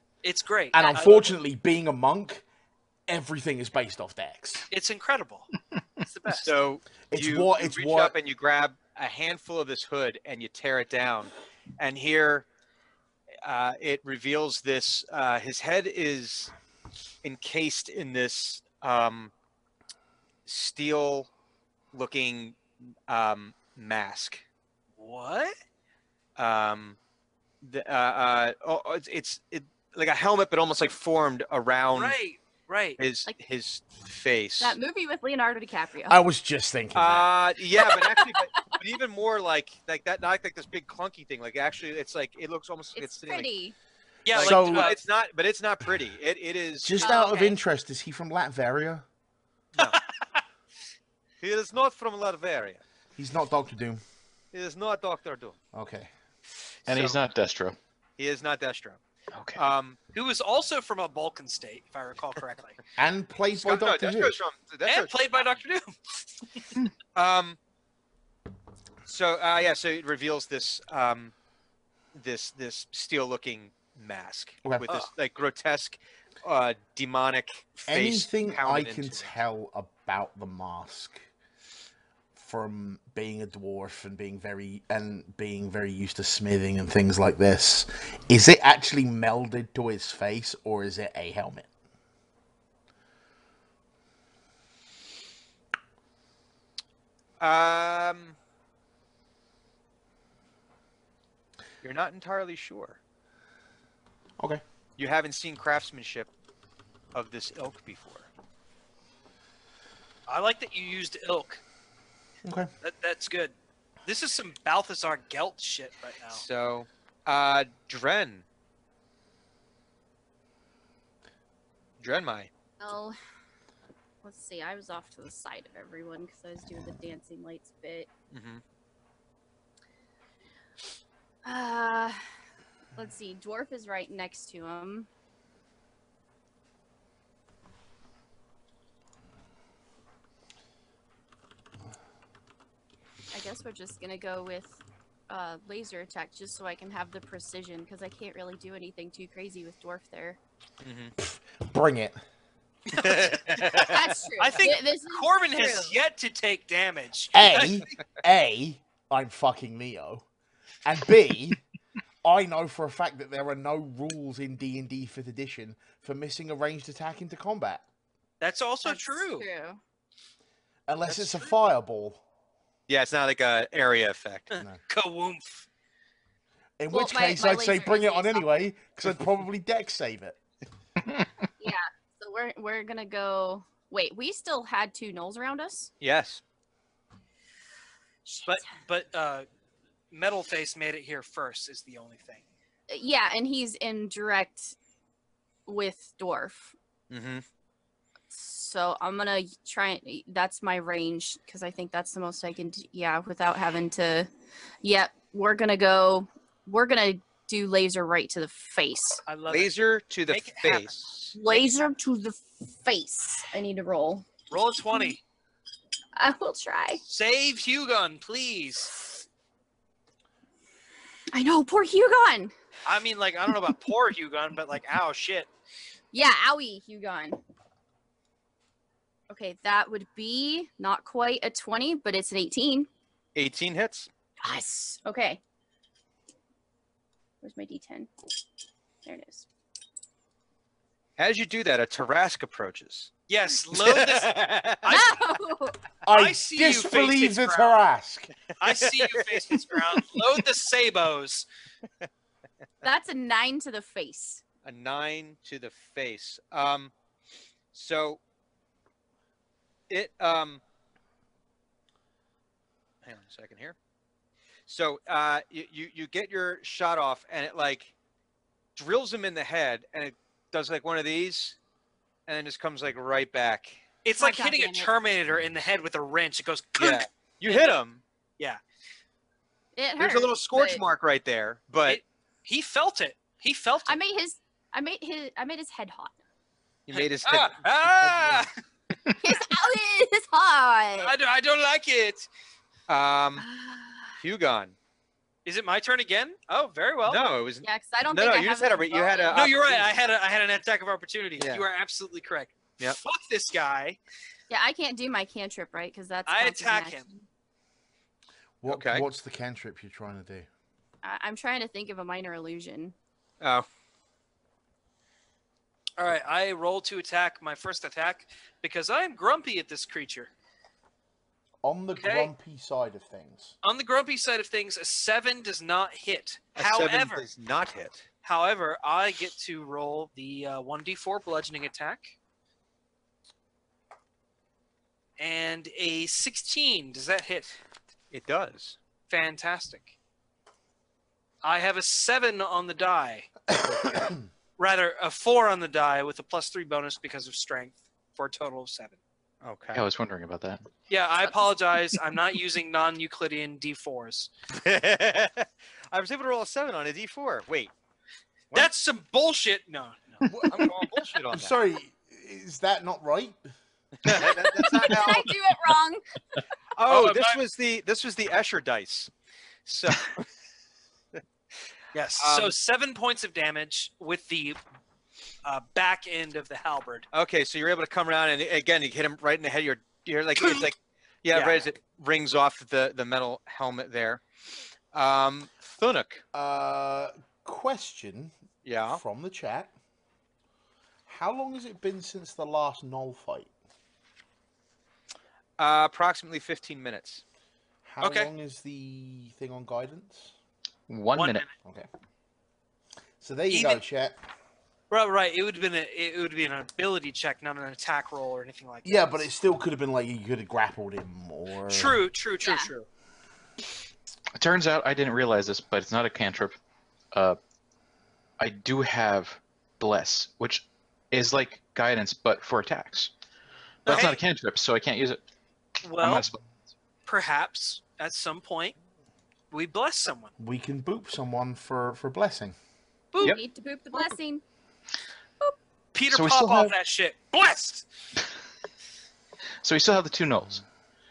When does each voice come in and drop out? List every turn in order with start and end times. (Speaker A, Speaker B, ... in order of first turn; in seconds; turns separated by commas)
Speaker A: 0.2-1.3, Speaker B: 0.7-2.4, Speaker B: 3.1-4.7, Speaker A: 4.7-5.5, Speaker A: 6.0-6.5, Speaker C: 6.3-12.4, Speaker B: 7.1-8.1, Speaker C: 13.4-16.5, Speaker C: 17.2-19.3, Speaker C: 20.4-21.3, Speaker C: 21.9-24.4, Speaker A: 25.0-25.5, Speaker C: 26.4-27.0, Speaker C: 27.6-32.2, Speaker A: 31.9-33.0, Speaker C: 33.0-34.8, Speaker D: 34.6-36.2, Speaker B: 36.1-37.3, Speaker C: 36.9-43.5, Speaker D: 37.8-38.7, Speaker D: 42.9-43.7, Speaker A: 44.2-45.0, Speaker C: 44.3-47.2, Speaker B: 44.4-44.9, Speaker B: 46.8-49.0, Speaker D: 47.0-47.6, Speaker C: 49.7-50.0, Speaker A: 49.8-50.4, Speaker C: 51.4-52.8, Speaker B: 53.1-54.0, Speaker C: 54.5-55.6, Speaker B: 55.7-56.1, Speaker C: 56.8-57.2, Speaker E: 56.9-57.8, Speaker C: 58.2-59.0, Speaker E: 59.3-59.6, Speaker C: 59.5-60.0, Speaker A: 60.1-62.8, Speaker B: 63.0-64.3, Speaker C: 63.5-65.5, Speaker A: 64.8-66.6, Speaker C: 67.1-67.6, Speaker C: 69.0-71.3, Speaker C: 72.1-79.3, Speaker B: 74.6-74.9, Speaker B: 77.9-81.2, Speaker B: 82.3-91.7, Speaker C: 97.4-98.3, Speaker C: 101.8-103.0, Speaker C: 105.0-106.3, Speaker C: 107.1-108.3, Speaker A: 110.3-111.6, Speaker B: 112.4-112.7, Speaker A: 112.8-116.4, Speaker C: 116.3-118.4, Speaker C: 122.0-122.5, Speaker D: 122.8-123.2, Speaker D: 124.2-128.1, Speaker C: 128.3-128.6, Speaker D: 131.4-132.2, Speaker D: 132.9-135.1, Speaker D: 143.3-150.4, Speaker C: 150.8-151.1, Speaker B: 151.2-152.2, Speaker A: 152.9-157.9, Speaker C: 152.9-154.1, Speaker D: 153.7-155.9, Speaker B: 157.3-160.2, Speaker B: 160.8-161.6, Speaker B: 162.2-167.8, Speaker A: 168.4-169.5, Speaker D: 168.8-169.8, Speaker B: 170.9-172.2, Speaker C: 172.9-174.5, Speaker A: 174.5-175.7, Speaker B: 176.8-180.4, Speaker D: 176.9-178.5, Speaker D: 181.6-185.9, Speaker C: 186.0-186.4, Speaker D: 188.3-188.6, Speaker A: 188.4-189.4, Speaker A: 190.1-192.4, Speaker D: 192.9-194.7, Speaker D: 195.7-196.7, Speaker C: 197.1-197.4, Speaker D: 198.3-204.3, Speaker D: 204.8-209.2, Speaker A: 209.2-209.7, Speaker C: 209.5-211.3, Speaker A: 210.3-210.9, Speaker D: 211.3-214.3, Speaker A: 214.5-215.2, Speaker D: 214.9-215.2, Speaker D: 216.2-217.0, Speaker A: 217.1-218.9, Speaker D: 221.3-222.5, Speaker A: 222.8-225.5, Speaker D: 226.1-227.4, Speaker D: 229.3-232.9, Speaker C: 233.3-234.1, Speaker D: 234.4-235.4, Speaker D: 237.4-238.1, Speaker D: 239.0-239.5, Speaker C: 241.2-243.1, Speaker A: 243.3-245.2, Speaker C: 243.7-244.9, Speaker D: 244.9-245.8, Speaker B: 246.1-248.3, Speaker A: 246.1-247.8, Speaker A: 248.6-251.4, Speaker C: 248.7-249.7, Speaker D: 252.8-254.4, Speaker C: 254.6-256.9, Speaker C: 257.7-258.2, Speaker C: 259.9-260.6, Speaker C: 263.0-263.8, Speaker C: 264.7-267.9, Speaker C: 268.8-271.6, Speaker C: 272.3-273.8, Speaker A: 274.0-277.7, Speaker D: 274.2-274.9, Speaker C: 276.8-278.0, Speaker D: 279.8-280.8, Speaker C: 280.0-282.0, Speaker A: 281.8-284.0, Speaker D: 283.9-286.2, Speaker C: 286.9-288.5, Speaker A: 286.9-288.5, Speaker D: 289.2-291.1, Speaker A: 291.0-292.3, Speaker C: 292.9-293.4, Speaker D: 293.4-294.1, Speaker C: 294.2-294.7, Speaker A: 295.4-297.2, Speaker C: 297.1-299.9, Speaker D: 297.6-299.4, Speaker A: 299.3-304.0, Speaker C: 301.4-301.6, Speaker D: 304.5-307.2, Speaker A: 306.3-307.1, Speaker B: 308.6-310.5, Speaker C: 308.7-309.1, Speaker D: 311.0-312.9, Speaker C: 313.4-313.6, Speaker A: 316.0-320.3, Speaker B: 321.6-323.5, Speaker A: 322.0-322.3, Speaker A: 323.6-327.3, Speaker C: 326.6-328.1, Speaker A: 328.2-332.1, Speaker A: 335.2-337.6, Speaker C: 338.1-338.8, Speaker A: 339.1-339.9, Speaker A: 341.4-343.3, Speaker A: 344.6-349.0, Speaker C: 349.4-349.9, Speaker E: 349.7-350.7, Speaker A: 350.9-354.3, Speaker C: 354.5-357.7, Speaker A: 358.5-360.3, Speaker B: 360.3-360.7, Speaker C: 360.4-361.5, Speaker B: 361.3-363.4, Speaker C: 364.0-365.3, Speaker D: 364.1-366.0, Speaker C: 366.8-369.1, Speaker A: 366.9-367.4, Speaker C: 369.6-370.2, Speaker A: 371.9-374.6, Speaker C: 372.2-372.5, Speaker A: 375.4-377.1, Speaker C: 377.1-384.2, Speaker A: 380.4-380.7, Speaker A: 381.3-381.7, Speaker C: 384.9-386.2, Speaker B: 386.3-388.3, Speaker C: 388.6-389.0, Speaker B: 388.9-389.7, Speaker B: 391.1-393.5, Speaker C: 395.6-397.2, Speaker B: 397.8-400.3, Speaker A: 398.0-398.3, Speaker E: 400.9-401.4, Speaker A: 401.1-401.5, Speaker B: 403.2-404.2, Speaker A: 403.5-403.8, Speaker A: 404.9-409.2, Speaker B: 408.8-412.0, Speaker A: 411.7-412.9, Speaker D: 412.4-412.7, Speaker E: 414.4-416.6, Speaker E: 417.1-417.4, Speaker E: 418.4-423.1, Speaker E: 423.9-425.2, Speaker A: 423.9-424.2, Speaker A: 425.8-426.2, Speaker E: 426.0-426.4, Speaker A: 427.1-428.7, Speaker A: 429.5-430.3, Speaker B: 430.4-432.6, Speaker A: 433.1-433.4, Speaker D: 433.2-434.4, Speaker A: 435.9-437.8, Speaker E: 436.1-436.7, Speaker E: 439.6-440.6